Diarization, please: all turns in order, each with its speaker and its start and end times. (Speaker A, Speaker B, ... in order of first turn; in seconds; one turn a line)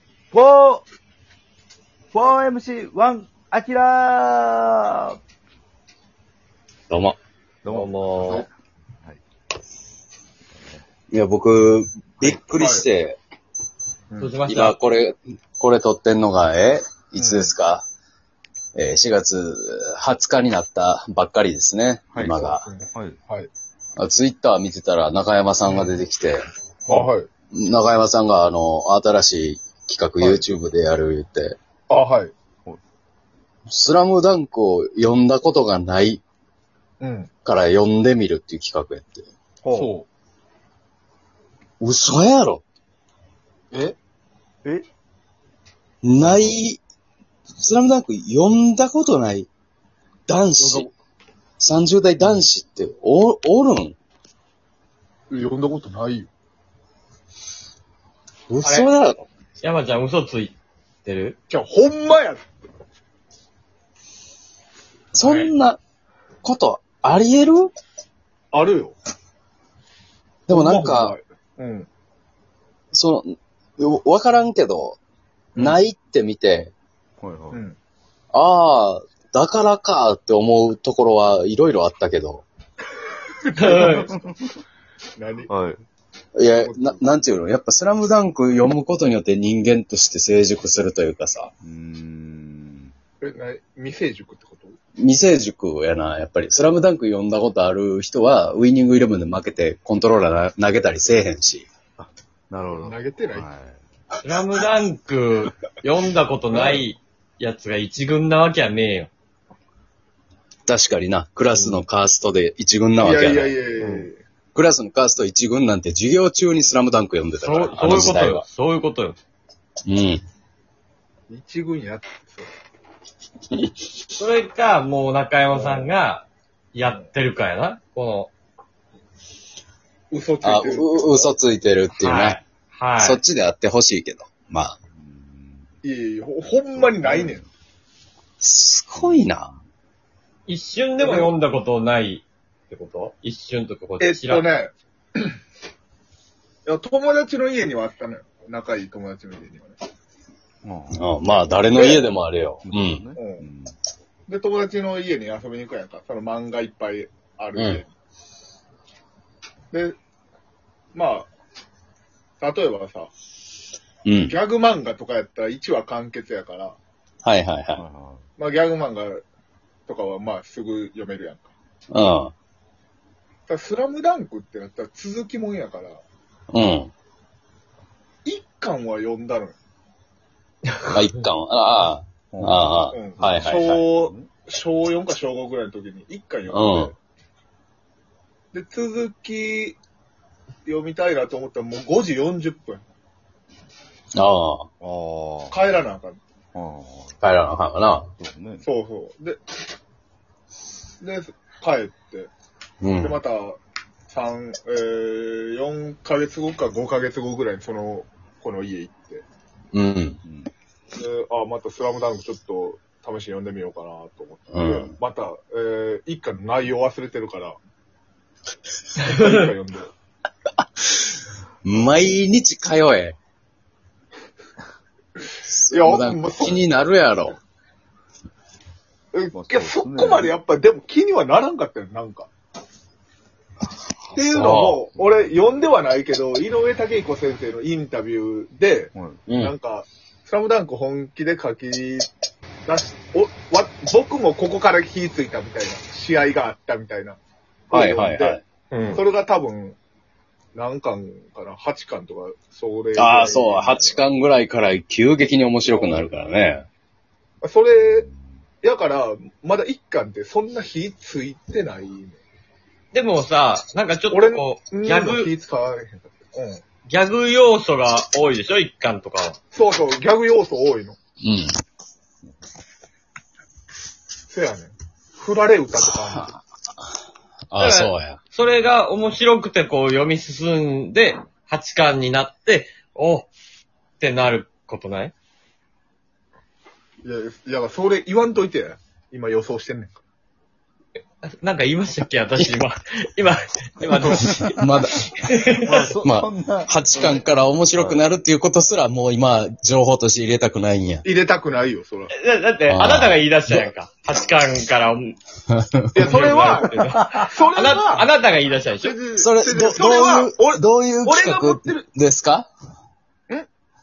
Speaker A: 0.3-0.9
Speaker A: 2.1-5.2
Speaker B: 6.9-7.2
Speaker A: 7.6-8.5
Speaker C: 8.0-8.5
Speaker A: 10.5-10.8
Speaker B: 11.1-13.2
Speaker D: 12.2-12.9
Speaker C: 14.2-14.7
Speaker B: 14.3-17.9
Speaker D: 17.2-17.6
Speaker B: 18.8-22.6
Speaker A: 22.1-23.2
Speaker D: 22.4-23.5
Speaker B: 24.0-31.6
Speaker D: 25.7-26.0
Speaker D: 26.9-27.3
Speaker D: 30.2-30.5
Speaker D: 31.9-32.3
Speaker B: 33.7-36.2
Speaker D: 37.0-37.3
Speaker B: 37.5-39.3
Speaker D: 39.7-40.1
Speaker B: 41.8-42.6
Speaker B: 46.0-46.8
Speaker A: 46.3-46.5
Speaker B: 47.6-49.5
Speaker B: 50.3-50.9
Speaker D: 50.6-50.9
Speaker B: 51.6-54.0
Speaker D: 55.3-56.3
Speaker B: 58.5-59.2
Speaker C: 58.6-58.9
Speaker C: 59.6-60.5
Speaker C: 61.0-61.4
Speaker D: 61.5-62.4
Speaker B: 65.1-65.8
Speaker B: 66.4-67.7
Speaker D: 68.5-69.0
Speaker B: 70.5-71.2
Speaker D: 70.5-71.9
Speaker B: 72.9-73.3
Speaker B: 73.8-75.0
Speaker D: 75.5-75.8
Speaker B: 75.6-76.7
Speaker A: 77.2-77.6
Speaker B: 78.3-82.5
Speaker D: 83.5-84.2
Speaker C: 83.5-84.1
Speaker A: 83.7-84.3
Speaker D: 85.2-85.5
Speaker A: 85.5-85.8
Speaker B: 86.3-91.5
Speaker D: 86.5-87.0
Speaker A: 91.6-92.9
Speaker D: 93.2-94.8
Speaker B: 95.0-101.7
Speaker A: 102.0-103.8
Speaker D: 102.8-103.5
Speaker C: 104.2-109.1
Speaker D: 106.5-106.8
Speaker B: 110.7-113.6
Speaker D: 113.0-114.2
Speaker B: 114.5-118.5
Speaker C: 117.4-119.2
Speaker B: 119.9-120.2
Speaker D: 121.3-122.5
Speaker C: 124.2-128.3
Speaker D: 130.1-131.3
Speaker B: 130.4-132.4
Speaker C: 131.9-133.2
Speaker B: 133.0-134.8
Speaker A: 134.9-135.7
Speaker D: 135.8-137.4
Speaker A: 136.8-137.4
Speaker B: 138.4-139.6
Speaker A: 139.0-139.3
Speaker C: 140.5-144.5
Speaker D: 141.0-141.3
Speaker D: 144.0-145.3
Speaker D: 146.7-149.8
Speaker A: 150.6-151.1
Speaker B: 150.9-153.0
Speaker D: 151.7-152.1
Speaker A: 152.6-153.7
Speaker D: 153.2-153.4
Speaker D: 154.3-157.9
Speaker B: 157.6-157.8
Speaker D: 159.7-160.0
Speaker D: 160.9-161.3
Speaker D: 162.4-163.1
Speaker B: 164.1-164.3
Speaker D: 164.3-166.8
Speaker B: 167.2-167.8
Speaker A: 167.8-168.2
Speaker D: 168.4-169.2
Speaker D: 169.9-171.5
Speaker B: 171.9-172.3
Speaker D: 173.5-176.0
Speaker B: 176.5-176.9
Speaker D: 178.2-179.6
Speaker B: 180.9-183.8
Speaker A: 182.3-184.3
Speaker D: 182.9-187.0
Speaker B: 186.5-186.9
Speaker D: 188.5-189.8
Speaker D: 190.7-192.8
Speaker B: 194.2-194.7
Speaker A: 194.8-195.6
Speaker D: 195.5-196.2
Speaker A: 196.5-197.2
Speaker B: 197.2-198.1
Speaker A: 198.2-198.7
Speaker D: 198.6-199.4
Speaker D: 201.0-202.3
Speaker B: 202.8-203.2
Speaker D: 203.0-203.6
Speaker D: 204.1-209.2
Speaker B: 209.7-210.2
Speaker A: 210.3-210.5
Speaker D: 210.9-217.6
Speaker B: 214.5-214.9
Speaker D: 219.0-219.9
Speaker B: 221.6-223.2
Speaker B: 225.5-227.4
Speaker D: 225.7-226.7
Speaker D: 229.1-232.3
Speaker A: 229.3-230.3
Speaker D: 234.1-242.1
Speaker B: 234.2-234.8
Speaker A: 238.9-239.2
Speaker B: 239.3-239.5
Speaker D: 242.7-247.2
Speaker D: 247.7-248.4
Speaker B: 247.7-248.4
Speaker D: 248.9-249.8
Speaker D: 250.6-254.0
Speaker B: 252.9-256.6
Speaker D: 255.7-256.1
Speaker D: 257.4-258.1
Speaker D: 258.6-262.2
Speaker C: 262.9-265.3
Speaker D: 264.1-266.6
Speaker C: 266.9-269.4
Speaker D: 269.5-271.0
Speaker B: 271.2-271.5
Speaker D: 274.3-276.4
Speaker B: 275.8-276.3
Speaker B: 277.5-278.2
Speaker C: 277.6-283.3
Speaker C: 284.0-285.1
Speaker D: 287.0-290.0
Speaker C: 291.4-294.6
Speaker B: 293.8-295.2
Speaker C: 295.1-295.8
Speaker A: 295.6-297.1
Speaker B: 296.0-301.0
Speaker D: 301.0-302.1
Speaker C: 302.1-305.2
Speaker B: 302.7-303.7
Speaker B: 305.5-306.1
Speaker D: 305.9-308.1
Speaker C: 306.1-309.0
Speaker D: 308.8-311.9
Speaker B: 309.2-312.5